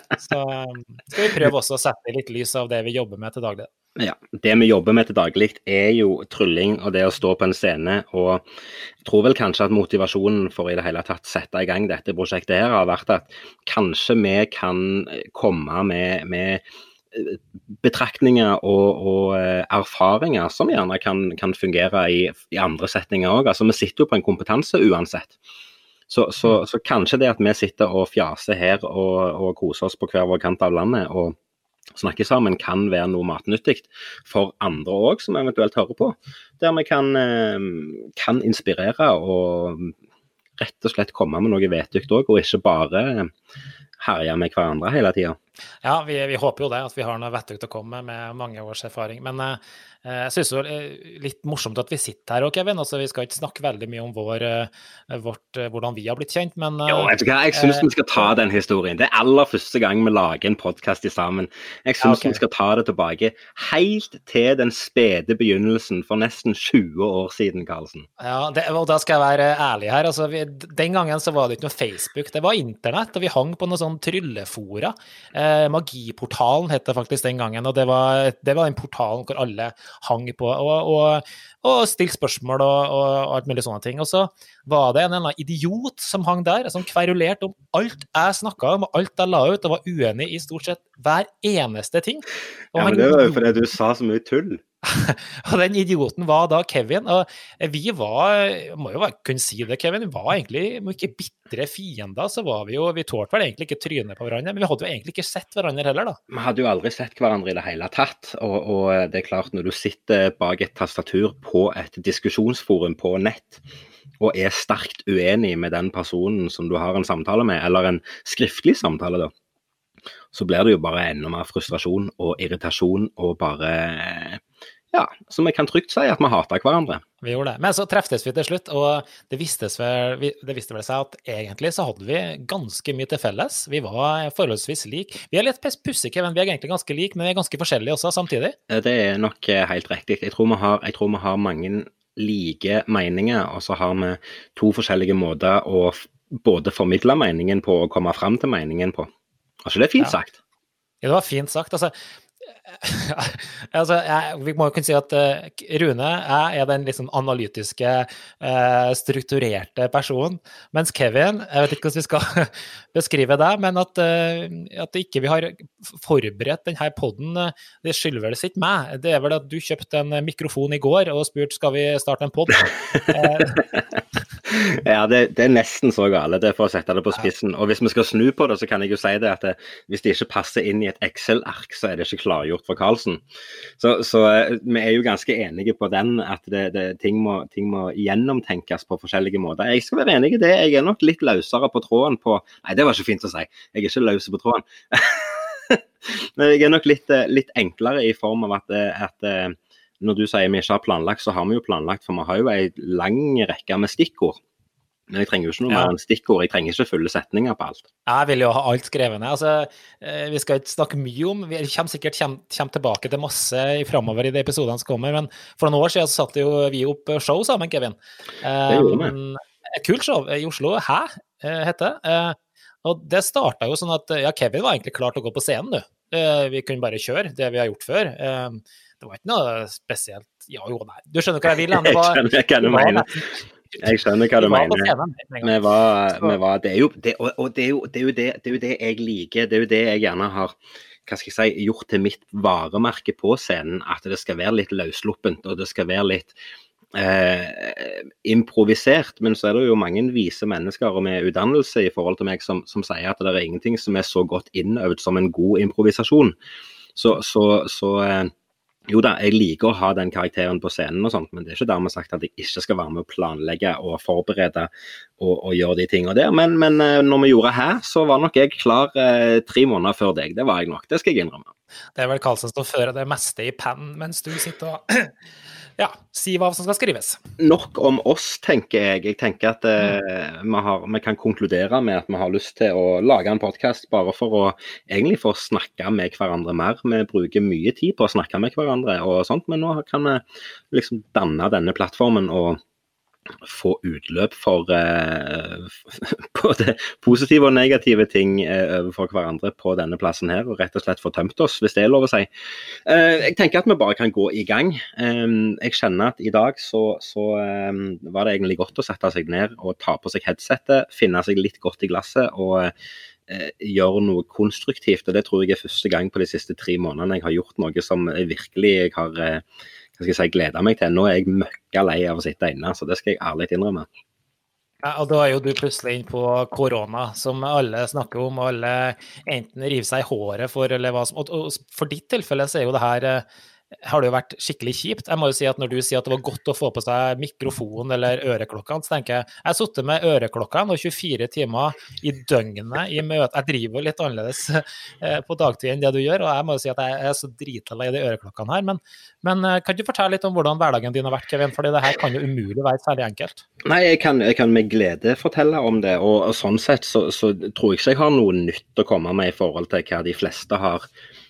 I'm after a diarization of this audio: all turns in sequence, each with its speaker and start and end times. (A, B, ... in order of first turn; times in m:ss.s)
0:00.1-0:03.7 A
0:04.0-0:08.4 B
0:09.0-0:25.4 B
0:26.1-0:31.4 B
0:31.9-0:39.9 B
0:40.6-0:43.3 B
0:44.0-0:45.4 B
0:45.8-0:57.9 A
0:56.9-1:08.1 B
1:02.0-1:02.4 A
1:08.2-1:33.5 A
1:32.7-1:34.6 B
1:34.8-1:46.2 A
1:46.3-1:53.6 B
1:54.2-1:59.3 B
2:00.3-2:07.0 B
2:07.2-2:18.6 A
2:18.7-2:29.1 B
2:29.6-2:30.3 B
2:31.0-2:31.9 A
2:32.6-2:53.6 A
2:52.9-3:03.2 B
3:03.8-3:24.4 B
3:25.1-3:27.8 B
3:25.7-3:25.9 A
3:28.0-3:55.6 A
3:38.7-3:39.1 B
3:51.5-3:53.0 B
3:53.8-4:06.3 B
4:06.9-4:16.4 B
4:17.0-4:18.3 B
4:18.9-4:31.5 B
4:32.0-4:35.1 A
4:35.8-4:37.2 A
4:37.4-4:52.6 B
4:53.4-5:12.7 B
5:13.3-5:19.4 B
5:20.0-5:23.9 B
5:24.8-5:33.2 A
5:33.8-5:53.4 A
5:53.6-6:00.9 B